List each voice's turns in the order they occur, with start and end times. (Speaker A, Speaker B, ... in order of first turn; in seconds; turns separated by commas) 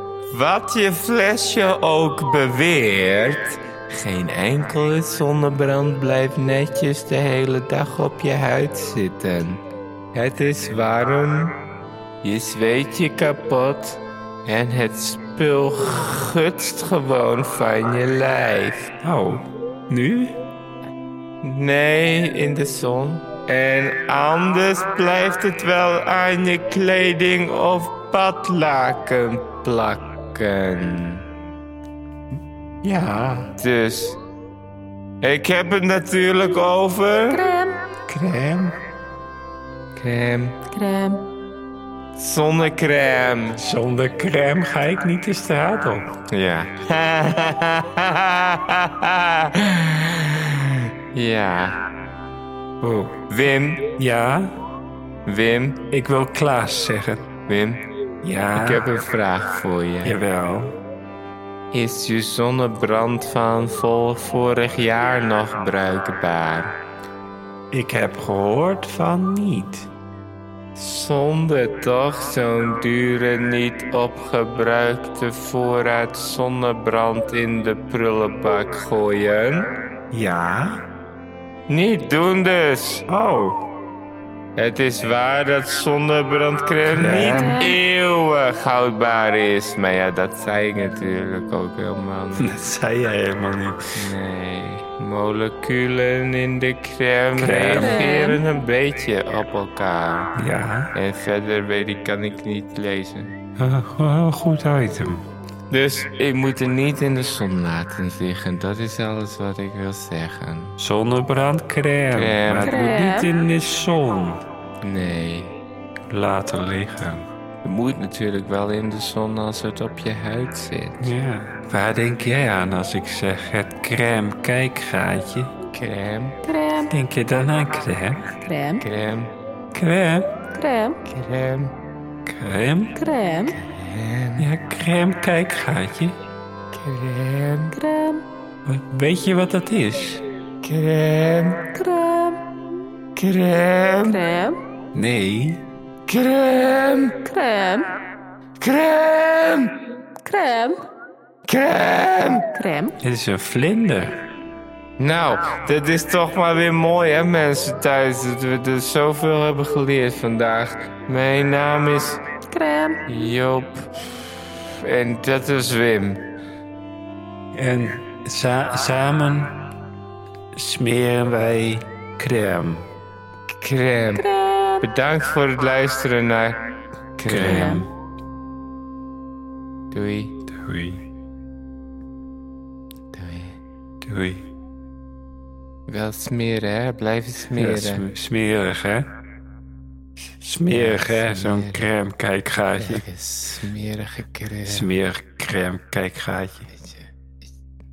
Speaker A: 0.3-9.6, Speaker A: 10.1-11.6, Speaker A: 12.2-18.9, Speaker B: 19.0-20.4, Speaker A: 21.4-31.2, Speaker B: 32.8-33.5, Speaker A: 33.5-34.2, Speaker A: 35.2-37.5, Speaker C: 37.3-37.8, Speaker B: 38.1-38.7, Speaker A: 40.0-40.6, Speaker C: 40.7-41.2, Speaker A: 42.1-43.6, Speaker B: 43.6-46.1, Speaker A: 46.3-51.9, Speaker B: 52.8-53.1, Speaker A: 53.3-53.9, Speaker B: 54.0-54.6, Speaker A: 55.2-55.8, Speaker B: 55.9-57.3, Speaker A: 57.5-57.8, Speaker B: 58.2-58.8, Speaker A: 58.5-60.2, Speaker B: 60.0-60.8, Speaker A: 61.7-66.8, Speaker B: 67.7-69.9, Speaker A: 70.7-79.7, Speaker B: 80.1-80.8, Speaker A: 81.7-83.0, Speaker B: 83.1-83.6, Speaker A: 84.5-92.5, Speaker B: 86.8-87.6, Speaker C: 87.2-87.7, Speaker B: 92.4-93.8, Speaker A: 93.9-100.3, Speaker B: 97.3-98.0, Speaker C: 97.7-98.4, Speaker B: 100.3-100.9, Speaker A: 100.9-103.3, Speaker B: 103.6-105.2, Speaker A: 105.7-110.8, Speaker B: 110.8-114.4, Speaker A: 112.1-112.8, Speaker C: 112.6-113.3, Speaker A: 114.8-115.5, Speaker B: 116.1-117.3, Speaker A: 117.6-121.1, Speaker B: 121.0-125.5, Speaker A: 125.7-126.4, Speaker C: 126.5-126.9, Speaker B: 126.9-128.4, Speaker C: 128.4-128.8, Speaker A: 128.8-129.3, Speaker B: 129.7-130.3, Speaker C: 130.5-131.0, Speaker A: 131.0-131.7, Speaker B: 132.2-132.9, Speaker C: 132.9-133.5, Speaker A: 133.5-134.5, Speaker B: 134.4-136.2, Speaker A: 136.7-137.8, Speaker C: 137.7-138.2, Speaker B: 138.6-140.2, Speaker A: 140.6-141.7, Speaker C: 141.7-142.4, Speaker A: 143.1-144.2, Speaker C: 144.1-144.6, Speaker B: 144.9-145.6, Speaker A: 146.1-147.2, Speaker C: 147.2-147.9, Speaker A: 148.6-149.7, Speaker C: 150.2-150.8, Speaker A: 151.4-152.5, Speaker C: 152.5-152.9, Speaker B: 153.0-154.2, Speaker A: 155.0-162.2, Speaker C: 162.5-163.0, Speaker A: 163.1-166.2, Speaker B: 167.5-169.6, Speaker B: 170.5-172.9, Speaker A: 173.6-176.6, Speaker C: 174.2-174.8, Speaker A: 177.2-177.8, Speaker B: 177.3-177.9, Speaker C: 177.4-177.8, Speaker A: 179.9-180.3, Speaker B: 180.5-181.0, Speaker A: 183.1-183.6, Speaker B: 184.0-184.4, Speaker A: 185.9-188.0, Speaker B: 187.6-189.1, Speaker B: 190.4-193.0, Speaker A: 190.7-191.9, Speaker A: 192.8-194.9, Speaker B: 194.7-196.7, Speaker A: 196.7-197.5